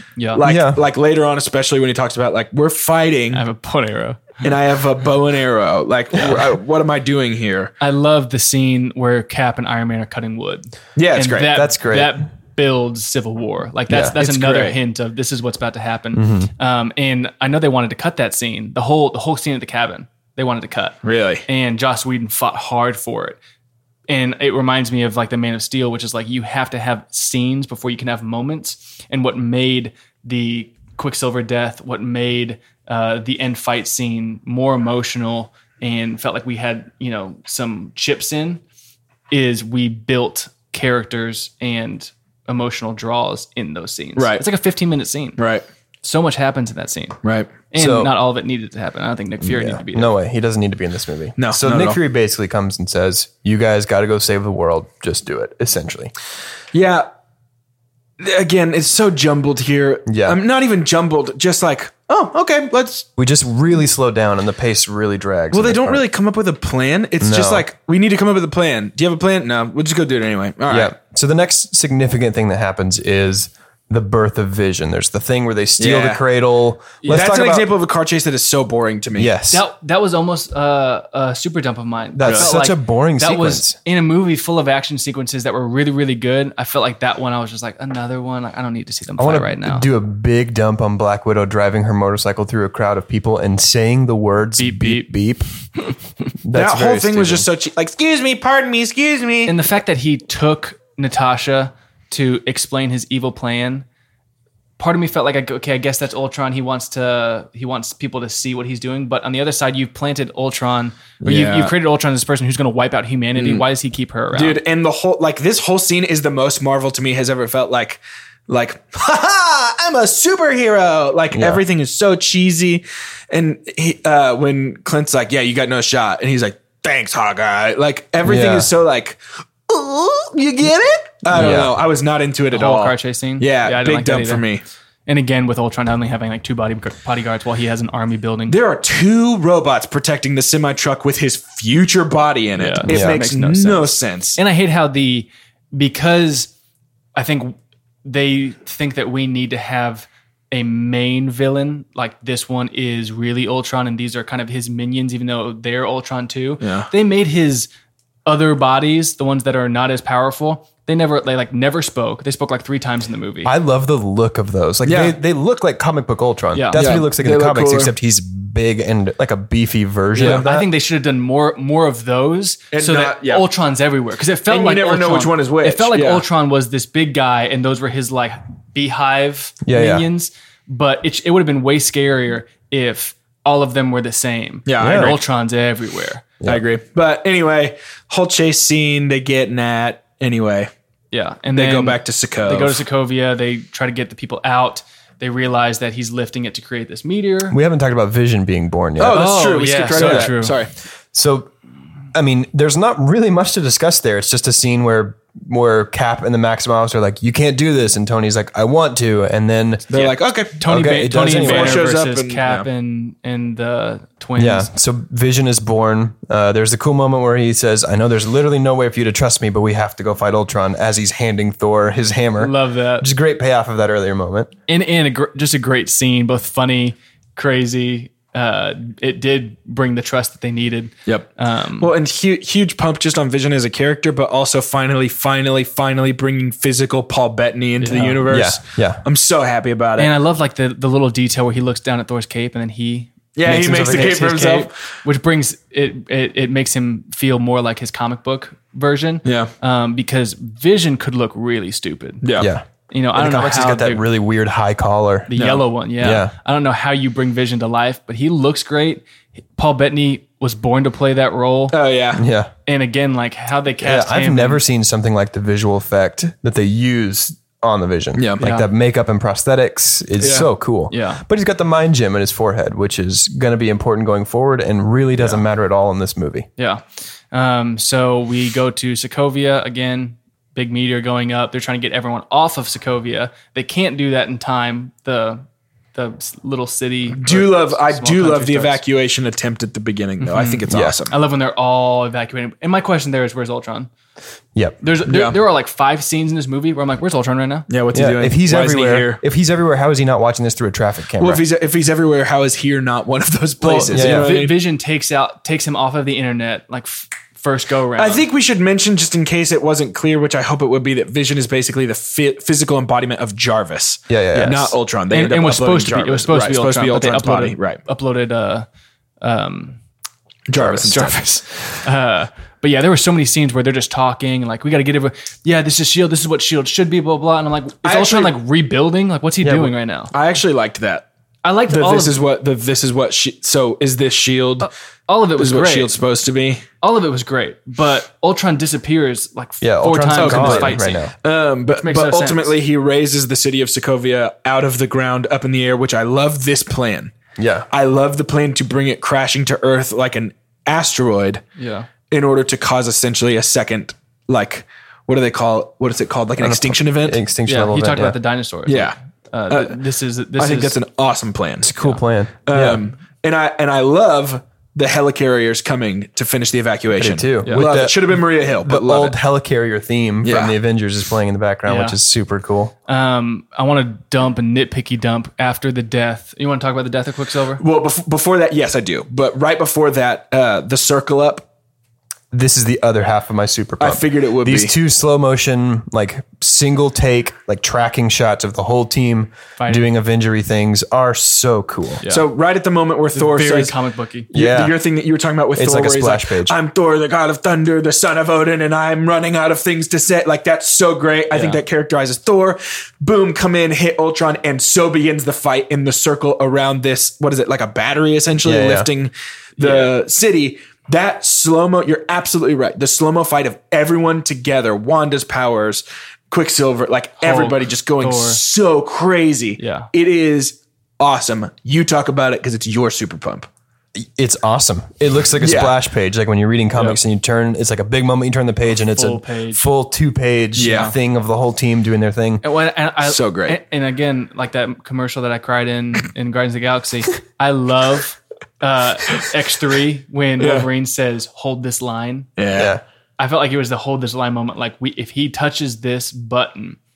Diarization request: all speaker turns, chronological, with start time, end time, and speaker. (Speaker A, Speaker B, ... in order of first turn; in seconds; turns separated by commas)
Speaker A: 0.2-0.4, Speaker B: 0.3-3.4, Speaker C: 0.4-0.8, Speaker A: 3.3-4.4, Speaker B: 4.4-7.7, Speaker C: 6.2-6.5, Speaker A: 7.8-23.4, Speaker B: 11.0-11.6, Speaker C: 11.5-12.2, Speaker C: 13.9-14.2, Speaker B: 14.2-14.8, Speaker C: 16.1-16.5, Speaker B: 21.0-21.4, Speaker A: 24.1-38.6, Speaker A: 39.3-45.4, Speaker B: 44.2-44.4, Speaker B: 45.4-45.6, Speaker A: 46.0-50.1, Speaker B: 47.2-47.6, Speaker C: 47.8-48.1, Speaker C: 49.4-56.1, Speaker B: 51.4-52.0, Speaker B: 56.7-57.1, Speaker B: 58.2-63.1, Speaker C: 60.1-60.4, Speaker C: 63.2-66.0, Speaker B: 65.5-70.9, Speaker C: 67.2-67.7, Speaker C: 70.7-77.7, Speaker B: 75.8-76.2, Speaker A: 77.0-77.3, Speaker B: 77.1-79.3, Speaker C: 79.2-79.7, Speaker A: 79.5-89.9, Speaker C: 82.2-83.8, Speaker B: 82.2-82.5, Speaker C: 89.2-95.5, Speaker A: 94.6-95.1, Speaker C: 96.4-97.5, Speaker B: 96.5-99.5, Speaker A: 99.5-103.9, Speaker A: 104.8-114.6, Speaker B: 111.2-111.7, Speaker B: 113.4-113.6, Speaker B: 114.3-134.6, Speaker C: 121.3-121.6, Speaker C: 128.2-128.7, Speaker C: 131.3-131.8, Speaker A: 132.5-134.4, Speaker A: 135.1-138.6, Speaker B: 138.5-144.4, Speaker A: 142.6-146.5, Speaker C: 142.9-143.2, Speaker A: 147.2-157.7, Speaker B: 156.6-156.9, Speaker A: 158.3-163.5, Speaker C: 163.4-170.7, Speaker B: 164.8-165.2, Speaker A: 166.5-166.9, Speaker B: 166.8-167.9, Speaker A: 170.2-186.4, Speaker B: 170.2-170.4, Speaker B: 172.7-173.4, Speaker B: 174.5-176.2, Speaker C: 179.7-180.1, Speaker B: 184.7-185.2, Speaker C: 184.8-185.2, Speaker B: 186.4-190.7, Speaker A: 191.1-197.6, Speaker B: 191.5-192.8, Speaker C: 197.5-199.3, Speaker B: 199.0-200.7, Speaker A: 199.1-200.6, Speaker C: 199.9-200.3, Speaker C: 201.1-201.5, Speaker C: 202.1-209.9, Speaker A: 209.9-214.7, Speaker B: 209.9-210.6, Speaker C: 210.6-211.8, Speaker B: 211.4-212.7, Speaker C: 214.4-224.5, Speaker A: 222.4-223.1, Speaker A: 224.7-231.9, Speaker B: 231.8-240.1, Speaker A: 237.8-238.2, Speaker C: 238.3-239.0, Speaker A: 240.0-254.0, Speaker B: 243.4-244.7, Speaker C: 243.4-244.2, Speaker B: 249.2-249.5, Speaker B: 252.2-252.5, Speaker C: 252.4-256.3, Speaker A: 255.3-259.0, Speaker A: 259.6-261.8, Speaker B: 261.7-262.2, Speaker C: 262.1-262.5, Speaker A: 262.7-264.6, Speaker C: 263.8-276.5, Speaker B: 268.2-268.4, Speaker A: 268.4-268.7, Speaker B: 270.2-270.5, Speaker A: 270.9-271.2, Speaker A: 275.2-275.4, Speaker A: 276.6-285.4, Speaker A: 285.9-288.8, Speaker B: 287.2-291.1, Speaker A: 290.2-293.9, Speaker C: 290.7-291.0, Speaker A: 294.8-297.7, Speaker B: 295.1-295.4, Speaker B: 297.7-299.2, Speaker C: 297.9-301.4, Speaker B: 301.2-304.6, Speaker C: 303.6-304.3, Speaker A: 303.6-308.2, Speaker B: 308.0-317.8, Speaker C: 314.1-314.8, Speaker A: 315.1-318.7, Speaker A: 319.2-319.8, Speaker B: 320.5-321.2, Speaker C: 320.6-320.9, Speaker A: 320.8-330.1, Speaker B: 327.8-328.3, Speaker C: 329.4-329.7, Speaker B: 330.1-331.1, Speaker A: 331.4-332.2, Speaker B: 331.7-334.7, Speaker A: 334.6-335.9, Speaker B: 335.4-336.6, Speaker A: 336.8-341.1, Speaker C: 339.6-341.1, Speaker B: 340.1-347.1, Speaker A: 341.6-342.6, Speaker C: 347.4-347.7, Speaker B: 347.7-351.4, Speaker A: 351.6-351.9, Speaker B: 352.1-357.2, Speaker C: 356.4-358.2, Speaker A: 357.5-360.8, Speaker B: 358.7-359.0, Speaker B: 359.5-359.8, Speaker B: 360.4-361.7, Speaker C: 361.6-362.8, Speaker B: 362.5-369.2, Speaker C: 366.9-372.7, Speaker A: 367.4-367.7, Speaker B: 370.2-370.5, Speaker A: 371.7-372.0, Speaker A: 372.9-377.6, Speaker B: 377.6-381.5, Speaker C: 382.3-392.0, Speaker B: 383.8-384.7, Speaker A: 389.6-389.9, Speaker A: 392.0-392.3, Speaker B: 392.1-393.7, Speaker A: 393.1-394.3, Speaker B: 394.3-423.5, Speaker C: 394.3-394.8, Speaker C: 395.6-396.6, Speaker A: 401.3-401.6, Speaker C: 408.4-408.9, Speaker A: 409.6-410.0, Speaker A: 417.2-418.4, Speaker A: 419.6-419.9, Speaker C: 423.9-432.4, Speaker B: 425.4-425.7, Speaker A: 428.7-429.6, Speaker B: 430.6-430.9, Speaker A: 432.4-442.3, Speaker B: 433.0-433.6, Speaker B: 440.4-440.7, Speaker B: 442.4-442.8, Speaker C: 442.6-442.8, Speaker A: 443.2-446.8